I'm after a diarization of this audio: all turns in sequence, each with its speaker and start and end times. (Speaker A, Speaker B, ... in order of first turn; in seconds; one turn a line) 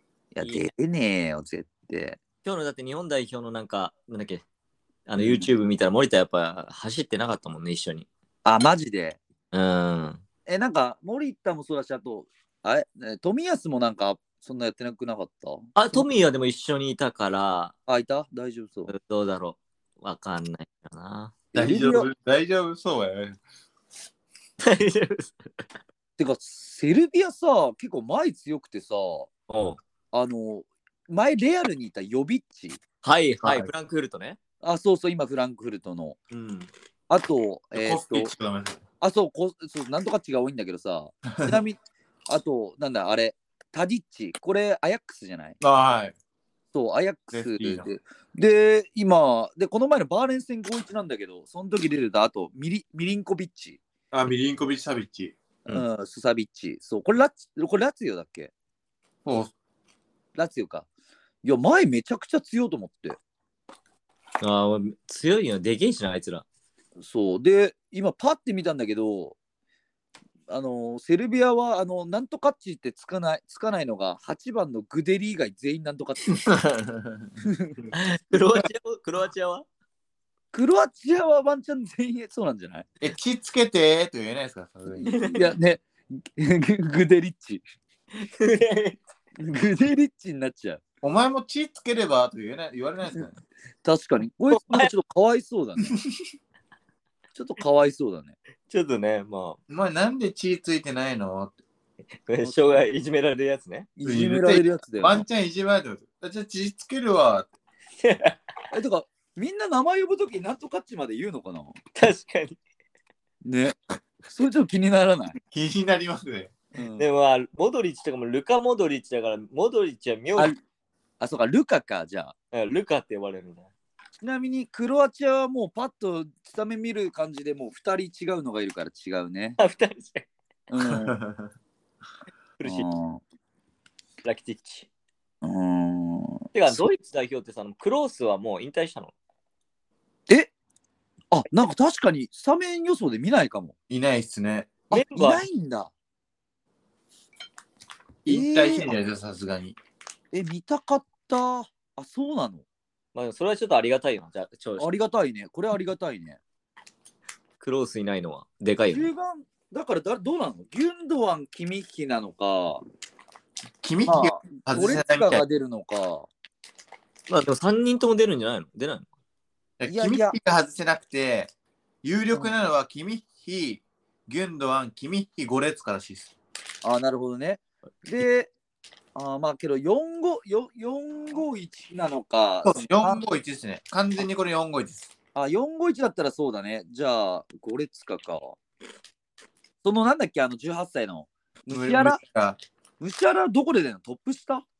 Speaker A: 0.3-2.2
Speaker B: 0.4-0.7
Speaker B: 2.4-4.4
Speaker B: 5.1-8.1
Speaker A: 5.2-5.5
Speaker A: 8.4-9.2
Speaker B: 9.5-10.2
Speaker A: 10.5-16.0
Speaker B: 15.8-17.7
Speaker A: 17.9-18.9
Speaker B: 18.9-21.4
Speaker A: 21.5-22.1
Speaker C: 21.5-23.4
Speaker B: 24.6-25.5
Speaker A: 26.2-29.3
Speaker B: 29.5-29.8
Speaker A: 30.1-32.8
Speaker B: 33.0-34.4
Speaker C: 33.4-33.7
Speaker A: 34.6-36.2
Speaker B: 36.3-36.7
Speaker A: 37.1-38.3
Speaker C: 37.7-38.8
Speaker A: 39.0-45.6
Speaker C: 41.3-41.5
Speaker C: 45.6-46.1
Speaker A: 46.7-53.8
Speaker C: 47.3-47.9
Speaker C: 54.1-55.3
Speaker A: 55.6-58.5
Speaker C: 59.2-59.5
Speaker A: 60.4-60.9
Speaker A: 61.4-63.2
Speaker B: 64.4-66.4
Speaker A: 67.0-69.4
Speaker A: 70.5-76.3
Speaker C: 76.3-77.8
Speaker A: 77.4-77.8
Speaker B: 77.9-79.7
Speaker A: 80.5-82.9
Speaker C: 83.0-85.2
Speaker B: 85.0-85.5
Speaker A: 85.3-87.6
Speaker B: 88.1-89.0
Speaker A: 89.4-90.8
Speaker C: 91.0-93.3
Speaker A: 93.8-95.9
Speaker B: 94.5-94.9
Speaker A: 97.3-98.4
Speaker B: 98.7-99.6
Speaker C: 99.7-101.5
Speaker B: 102.3-103.9
Speaker A: 102.4-102.8
Speaker A: 104.0-105.2
Speaker C: 104.0-107.5
Speaker B: 108.0-108.4
Speaker A: 108.7-111.8
Speaker B: 112.0-112.6
Speaker A: 113.4-115.4
Speaker C: 115.5-116.5
Speaker A: 116.7-117.0
Speaker B: 117.0-120.5
Speaker A: 121.2-122.3
Speaker B: 122.5-123.7
Speaker A: 124.2-129.6
Speaker B: 129.6-130.3
Speaker A: 130.7-131.2
Speaker C: 130.9-131.5
Speaker B: 132.6-132.9
Speaker A: 132.6-133.2
Speaker B: 134.2-134.9
Speaker A: 135.4-136.8
Speaker B: 136.5-139.1
Speaker A: 141.3-143.7
Speaker C: 143.9-144.8
Speaker A: 144.9-145.9
Speaker B: 144.9-145.4
Speaker C: 148.2-149.8
Speaker A: 148.2-148.9
Speaker A: 150.3-152.6
Speaker B: 153.1-154.9
Speaker A: 154.8-156.4
Speaker B: 157.6-159.1
Speaker A: 158.9-162.8
Speaker C: 163.8-165.4
Speaker A: 164.1-166.3
Speaker B: 167.3-169.1
Speaker C: 169.8-171.5
Speaker A: 169.9-170.3
Speaker C: 172.0-176.3
Speaker A: 176.8-178.5
Speaker A: 179.1-183.2
Speaker C: 182.6-185.1
Speaker A: 185.3-188.6
Speaker A: 189.8-192.2
Speaker C: 191.7-192.6
Speaker A: 193.0-194.7